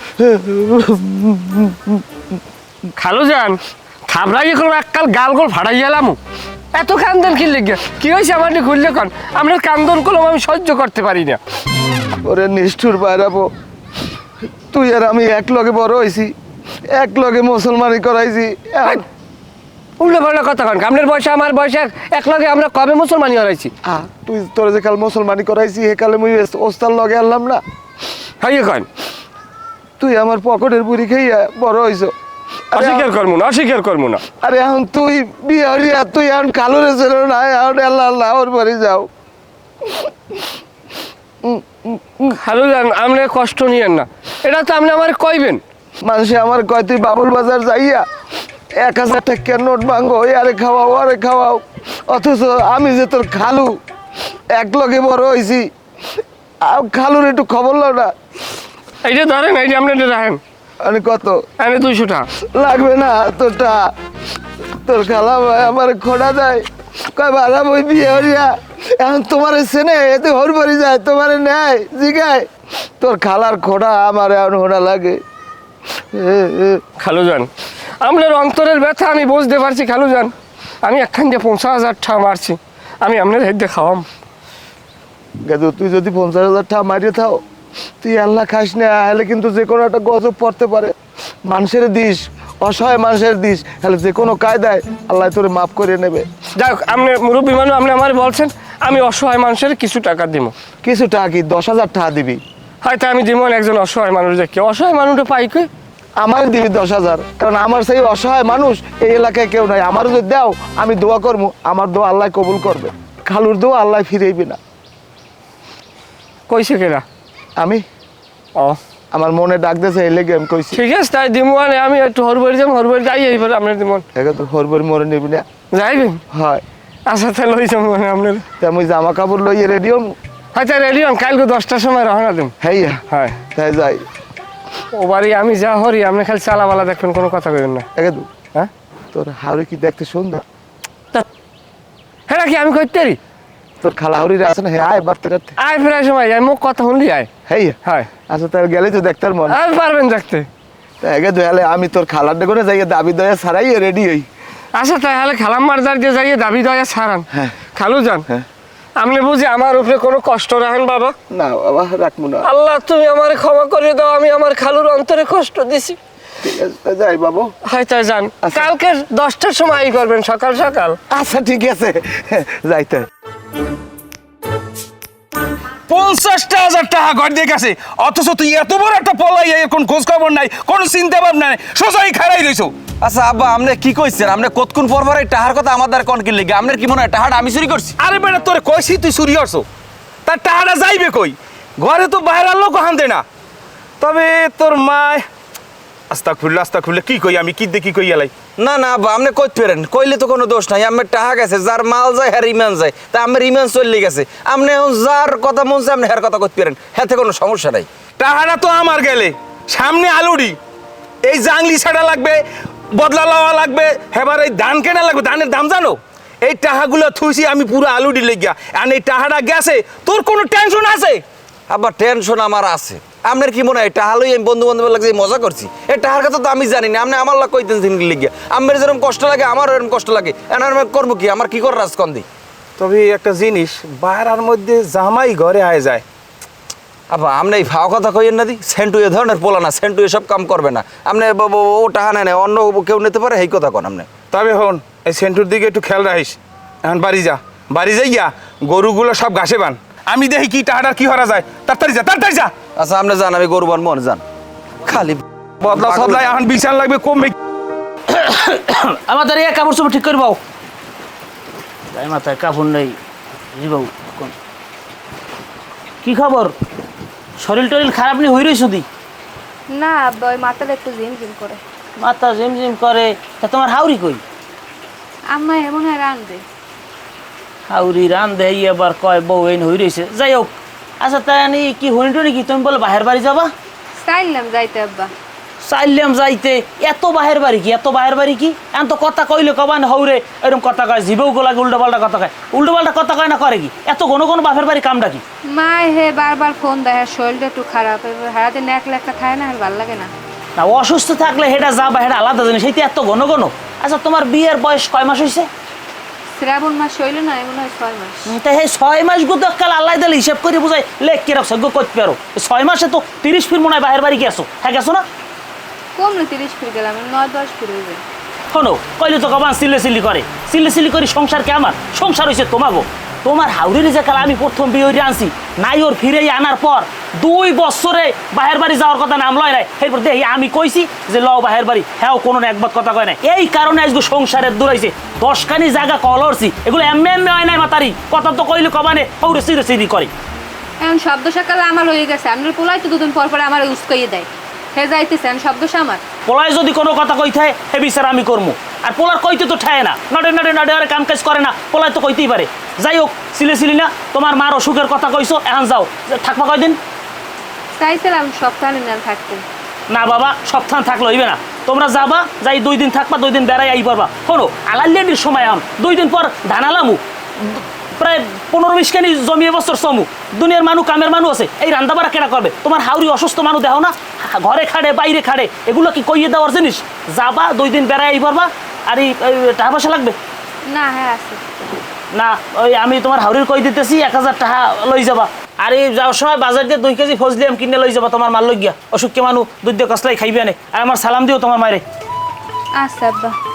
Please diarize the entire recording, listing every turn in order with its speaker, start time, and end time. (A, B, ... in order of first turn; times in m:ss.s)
0:00.2-0:02.2 A
0:03.0-0:06.2 B
0:06.7-0:11.4 B
0:12.2-0:13.5 A
0:14.7-0:16.3 A
0:16.9-0:19.0 A
0:20.0-0:23.7 B
0:23.8-0:27.6 A
0:28.4-0:28.9 B
0:30.0-0:32.1 A
0:32.7-0:33.1 A
0:32.7-0:34.2 B
0:34.4-0:39.1 A
0:39.8-0:40.1 A
0:41.4-0:42.4 A
0:42.3-0:45.6 B
0:46.0-0:48.0 A
0:48.7-0:53.8 A
0:54.5-0:55.7 A
0:56.6-0:58.1 A
0:59.0-1:00.4 B
1:00.8-1:01.4 A
1:01.6-1:02.3 B
1:02.4-1:03.9 A
1:04.7-1:15.2 A
1:16.0-1:16.8 A
1:17.0-1:17.5 B
1:18.0-1:20.3 B
1:20.8-1:24.0 B
1:25.4-1:27.4 A
1:28.0-1:36.3 A
1:36.6-1:40.5 B
1:40.8-1:42.4 A
1:42.8-1:45.7 B
1:46.2-1:54.6 A
1:56.5-1:57.0 B
1:57.6-1:57.8 A
1:59.1-2:00.8 A
2:00.7-2:04.0 B
2:04.1-2:05.4 A
2:05.7-2:06.2 B
2:06.3-2:06.6 A
2:07.1-2:08.4 B
2:08.6-2:10.1 A
2:10.5-2:12.5 B
2:12.6-2:14.0 A
2:13.1-2:13.4 B
2:14.9-2:17.9 B
2:17.9-2:18.3 A
2:19.1-2:20.4 A
2:22.3-2:23.2 B
2:23.8-2:25.6 A
2:25.6-2:27.3 B
2:27.5-2:29.6 A
2:29.5-2:30.5 B
2:31.0-2:34.3 A
2:34.7-2:38.3 B
2:37.3-2:37.6 A
2:39.0-2:41.2 B
2:41.3-2:42.5 A
2:42.4-2:46.0 B
2:46.4-2:47.5 A
2:47.6-2:51.0 B
2:48.4-2:48.7 A
2:51.1-2:53.1 A
2:55.9-3:02.7 C
3:03.0-3:08.0 D
3:08.0-3:09.6 C
3:10.2-3:13.2 C
3:14.0-3:15.2 C
3:16.1-3:18.3 C
3:18.6-3:27.9 D
3:28.2-3:30.6 C
3:31.2-3:32.4 C
3:32.9-3:41.2 C
3:41.7-3:52.2 D
3:52.8-3:56.0 C
3:57.1-4:04.1 D
4:04.3-4:12.5 C
4:12.8-4:14.2 D
4:14.8-4:16.2 D
4:15.6-4:17.3 C
4:18.1-4:20.4 E
4:21.9-4:23.0 E
4:23.5-4:24.3 E
4:26.0-4:26.5 E
4:27.4-4:28.8 E
4:29.7-4:31.6 F
4:32.0-4:34.2 E
4:35.3-4:36.4 F
4:37.7-4:43.5 E
4:44.0-4:45.1 F
4:45.6-4:55.2 E
4:55.5-5:00.1 F
5:00.6-5:05.5 E
5:06.4-5:08.3 F
5:08.2-5:15.0 E
5:16.0-5:18.0 F
5:18.5-5:40.1 E
5:40.8-5:46.0 F
5:46.2-5:56.8 E
5:57.8-5:59.4 F
5:59.9-6:20.2 E
6:20.7-6:21.4 F
6:22.1-6:31.8 E
6:32.8-6:33.4 F